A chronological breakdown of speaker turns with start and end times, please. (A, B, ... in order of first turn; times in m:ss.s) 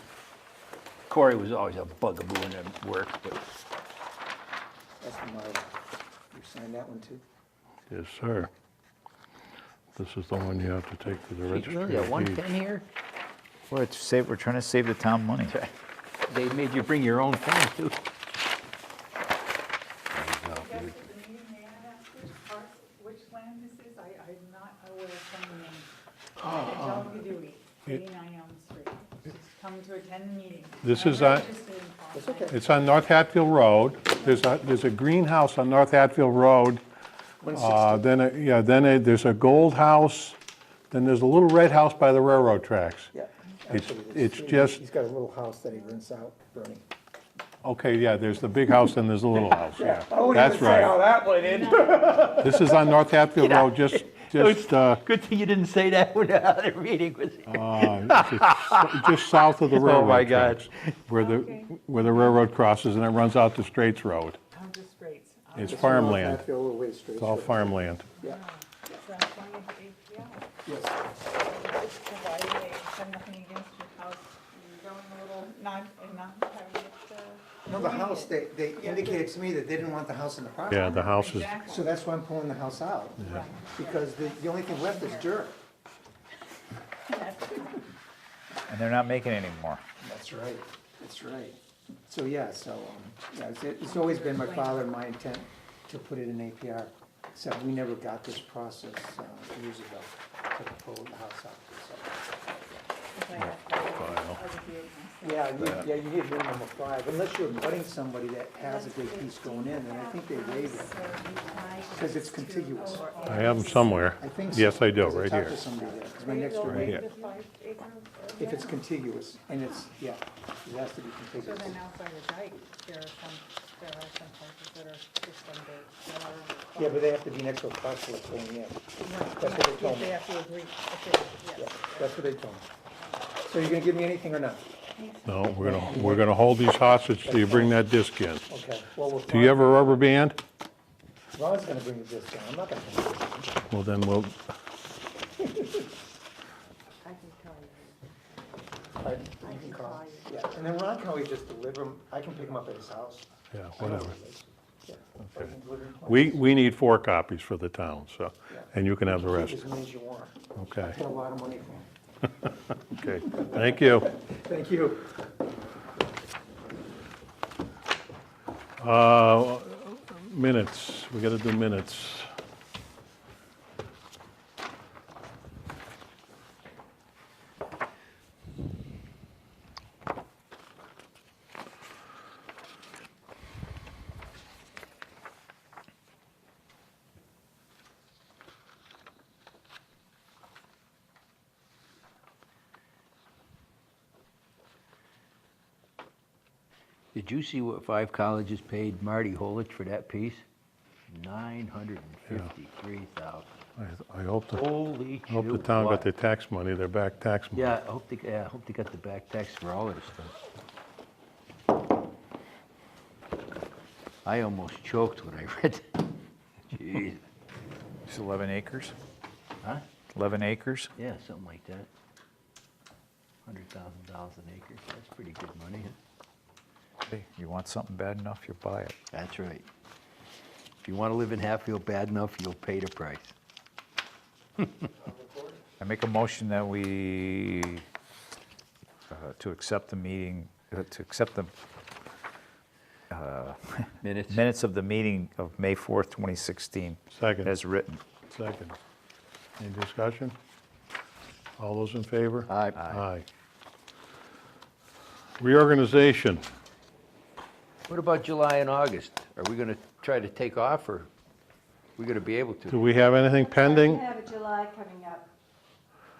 0:01.1-0:03.4 A
0:05.0-0:05.7 B
0:06.3-0:07.2 B
0:07.9-0:08.5 C
0:09.9-0:12.5 C
0:11.5-0:12.8 A
0:13.7-0:15.5 D
0:16.3-0:18.0 A
0:20.1-0:20.9 A
0:20.5-0:25.9 E
0:26.4-0:32.6 E
0:30.8-0:31.5 C
0:32.1-0:32.6 B
0:32.5-0:36.8 C
0:37.4-0:38.0 B
0:37.5-0:40.4 C
0:40.9-0:43.1 C
0:43.1-0:46.8 B
0:43.7-0:44.8 C
0:47.6-0:51.0 C
0:49.8-0:52.8 B
0:50.8-0:52.5 E
0:52.4-0:55.0 C
0:53.4-1:01.0 A
0:57.5-1:04.4 C
1:01.2-1:01.8 E
1:04.5-1:06.1 E
1:05.6-1:06.4 C
1:05.6-1:09.0 B
1:07.2-1:08.2 C
1:08.2-1:10.4 E
1:10.6-1:11.0 B
1:11.4-1:19.3 E
1:17.7-1:25.6 B
1:20.7-1:21.6 C
1:20.8-1:22.0 E
1:23.2-1:25.4 E
1:27.0-1:27.9 E
1:28.7-1:29.8 D
1:30.0-1:42.2 B
1:33.8-1:34.9 E
1:43.1-1:45.8 E
1:43.4-1:44.4 C
1:45.2-1:50.9 B
1:48.5-1:54.0 F
1:51.2-1:54.5 E
1:51.9-1:53.3 B
1:53.2-1:55.6 C
1:54.0-1:57.0 B
1:55.7-1:58.8 E
1:56.6-1:57.0 C
1:57.1-1:57.3 F
1:58.4-2:01.8 B
2:01.4-2:07.1 E
2:06.8-2:10.2 B
2:09.0-2:12.2 E
2:11.6-2:12.6 B
2:13.4-2:14.6 B
2:15.0-2:15.2 E
2:15.2-2:18.4 C
2:15.5-2:16.4 B
2:17.2-2:17.7 B
2:18.5-2:20.0 B
2:19.3-2:20.4 C
2:21.3-2:23.6 B
2:23.7-2:24.4 C
2:27.0-2:27.9 E
2:29.0-2:36.4 B
2:29.3-2:30.4 E
2:33.5-2:34.2 C
2:35.2-2:35.5 C
2:36.0-2:39.7 C
2:38.5-2:41.9 B
2:40.5-2:41.0 C
2:42.9-2:44.1 C
2:43.3-2:45.0 B
2:48.8-2:52.3 C
3:17.1-3:20.4 A
3:21.1-3:23.5 A
3:23.8-3:24.6 C
3:24.5-3:26.1 A
3:25.3-3:27.7 C
3:27.5-3:30.3 A
3:34.2-3:36.0 A
3:36.7-3:37.2 A
3:38.1-3:38.9 D
3:40.1-3:40.9 D
3:41.0-3:41.9 A
3:43.4-3:46.0 A
3:47.0-3:49.0 D
3:49.1-3:49.6 A
3:50.8-3:53.3 A
3:55.0-3:55.6 B
3:55.8-3:57.8 D
3:59.1-4:01.5 D
4:03.1-4:08.0 D
4:04.0-4:04.4 A
4:07.1-4:07.5 C
4:08.3-4:08.8 C
4:09.6-4:10.4 C
4:11.6-4:13.2 C
4:12.5-4:12.8 A
4:12.7-4:13.0 D
4:15.4-4:16.4 C
4:17.9-4:21.1 A
4:22.0-4:22.9 A
4:22.7-4:24.0 C
4:23.4-4:25.3 F